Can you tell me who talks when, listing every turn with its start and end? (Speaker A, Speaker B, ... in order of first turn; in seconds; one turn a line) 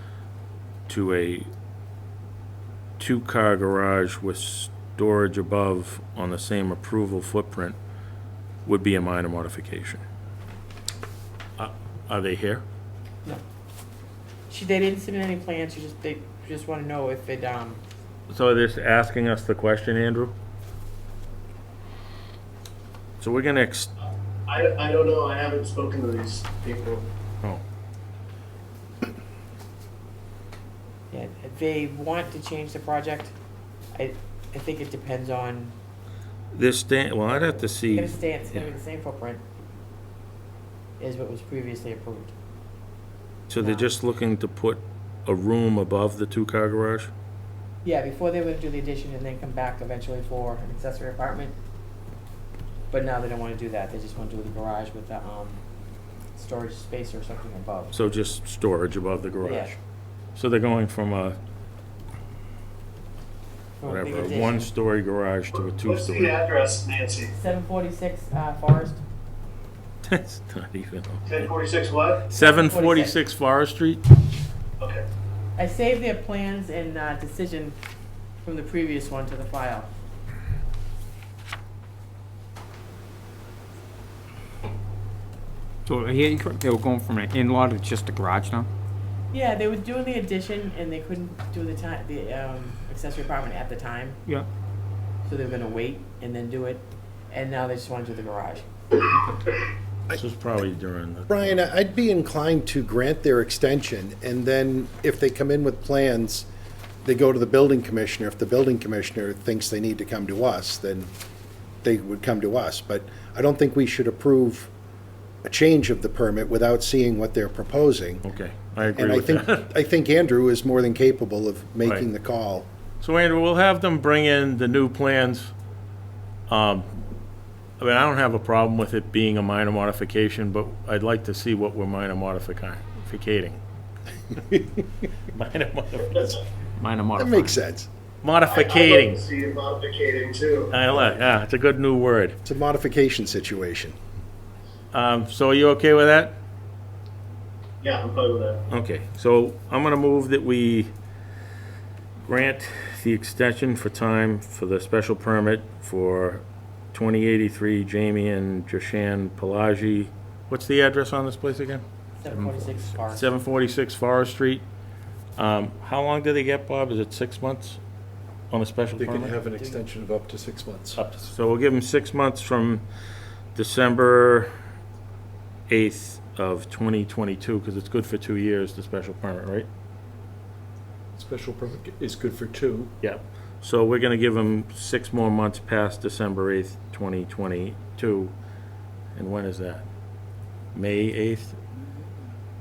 Speaker A: 0.9-1.5
Speaker A: 3.0-7.8
Speaker A: 8.6-10.0
Speaker A: 11.6-12.6
Speaker B: 14.5-17.8
Speaker A: 18.3-20.3
Speaker A: 23.2-23.9
Speaker C: 24.5-27.1
Speaker B: 31.1-33.3
Speaker B: 33.9-35.8
Speaker A: 36.5-38.6
Speaker B: 37.9-39.4
Speaker B: 41.0-42.3
Speaker A: 43.5-47.1
Speaker B: 43.5-43.9
Speaker B: 47.8-51.5
Speaker B: 52.9-55.6
Speaker B: 56.3-57.9
Speaker A: 57.9-59.8
Speaker B: 59.4-59.7
Speaker A: 60.4-61.4
Speaker B: 63.8-64.7
Speaker A: 63.9-66.3
Speaker C: 65.6-67.3
Speaker B: 67.3-69.0
Speaker A: 70.0-71.5
Speaker C: 71.3-72.2
Speaker A: 72.3-74.0
Speaker B: 72.3-73.2
Speaker C: 74.8-75.0
Speaker B: 75.5-77.8
Speaker B: 78.4-79.9
Speaker D: 85.8-88.7
Speaker B: 89.3-94.2
Speaker B: 95.2-98.7
Speaker A: 100.1-101.6
Speaker E: 101.3-106.5
Speaker E: 107.0-111.1
Speaker E: 111.8-114.7
Speaker E: 115.4-118.2
Speaker A: 118.2-119.7
Speaker E: 118.9-122.7
Speaker A: 123.0-125.5
Speaker A: 126.5-126.9
Speaker A: 127.8-133.6
Speaker A: 135.3-137.6
Speaker E: 137.2-137.9
Speaker A: 138.2-139.2
Speaker C: 138.5-140.7
Speaker A: 140.7-142.4
Speaker E: 142.4-143.9
Speaker A: 144.9-146.4
Speaker C: 147.8-148.6
Speaker A: 148.7-150.9
Speaker A: 152.2-164.6
Speaker B: 162.2-163.3
Speaker A: 165.4-167.8
Speaker A: 168.5-169.3
Speaker F: 168.9-171.0
Speaker A: 170.9-172.8
Speaker A: 173.5-174.5
Speaker A: 175.7-179.7
Speaker F: 181.1-182.9
Speaker A: 183.0-188.3
Speaker A: 189.1-189.8
Speaker A: 190.7-191.6